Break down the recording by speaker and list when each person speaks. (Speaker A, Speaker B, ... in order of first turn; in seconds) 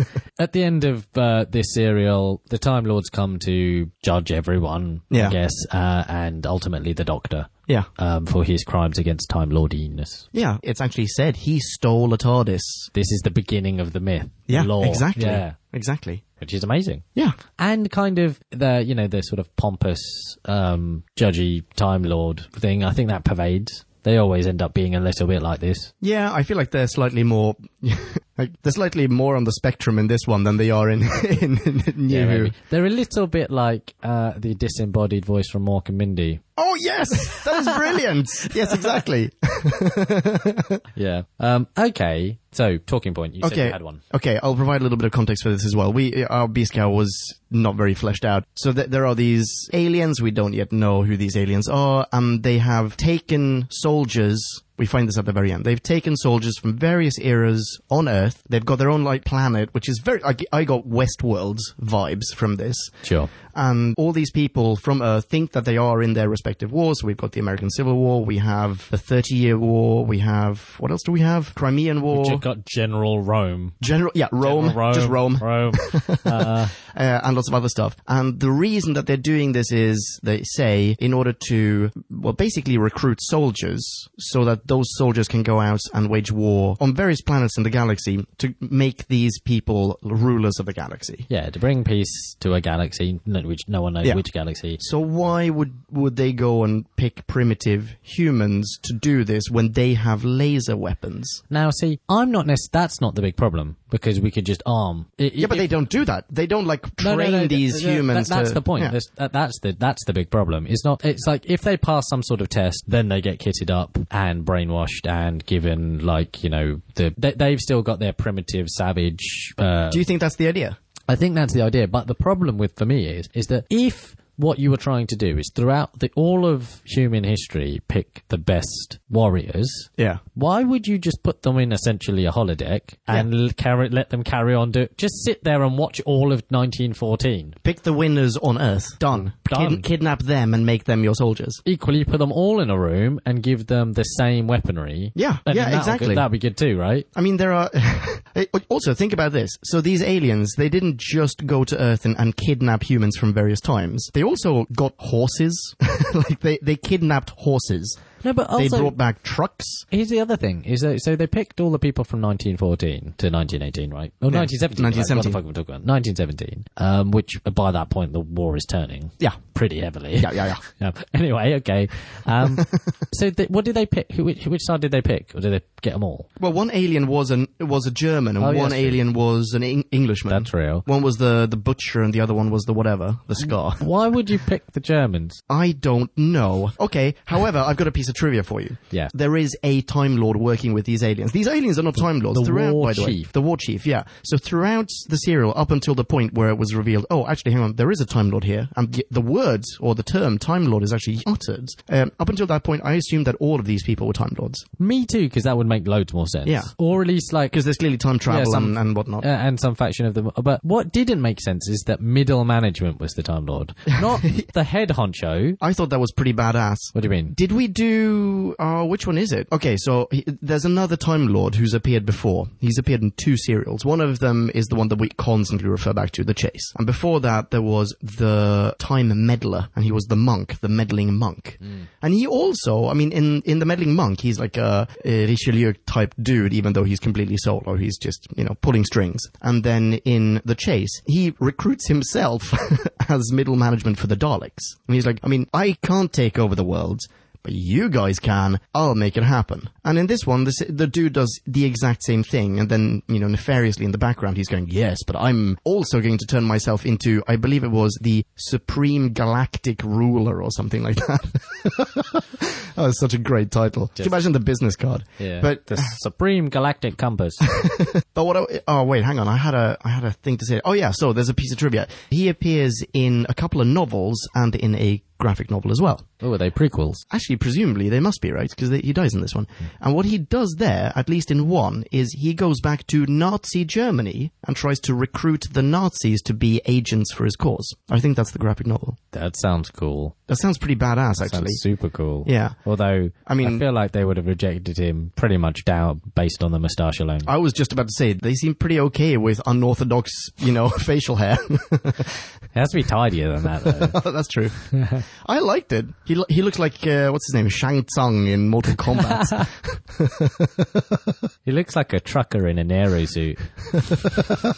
Speaker A: 0.4-10.3, 12.9-15.6, 16.4-17.0, 17.6-25.9, 32.1-36.4, 37.3-37.7, 40.9-44.0, 63.0-63.3, 72.1-73.8, 74.4-76.7, 91.3-94.8, 101.5-105.8, 107.0-120.1, 121.1-137.6, 139.2-139.8, 141.6-147.1, 158.2-158.9, 159.9-176.3, 178.4-179.0, 180.3-180.8, 183.4-185.4, 192.3-193.3, 204.8-207.6, 208.2-215.6, 216.9-217.3, 265.2-267.4, 276.2-277.0, 289.1-290.1, 291.2-297.3, 302.5-304.0, 304.7-305.0, 311.4-313.5
Speaker B: 5.1-5.4, 10.3-12.9, 14.5-16.2, 26.0-32.5, 36.6-40.8, 43.4-72.4, 73.8-91.3, 94.8-101.4, 105.4-108.9, 119.9-120.8, 137.6-141.6, 145.2-146.3, 147.1-158.0, 158.5-159.8, 164.3-165.4, 170.2-170.6, 176.4-183.8, 185.5-204.6, 206.4-206.7, 207.5-209.2, 215.6-262.2, 262.8-265.9, 268.1-276.0, 277.1-288.9, 290.3-291.6, 292.2-292.6, 293.3-293.6, 297.2-302.1, 303.9-304.5, 305.2-310.3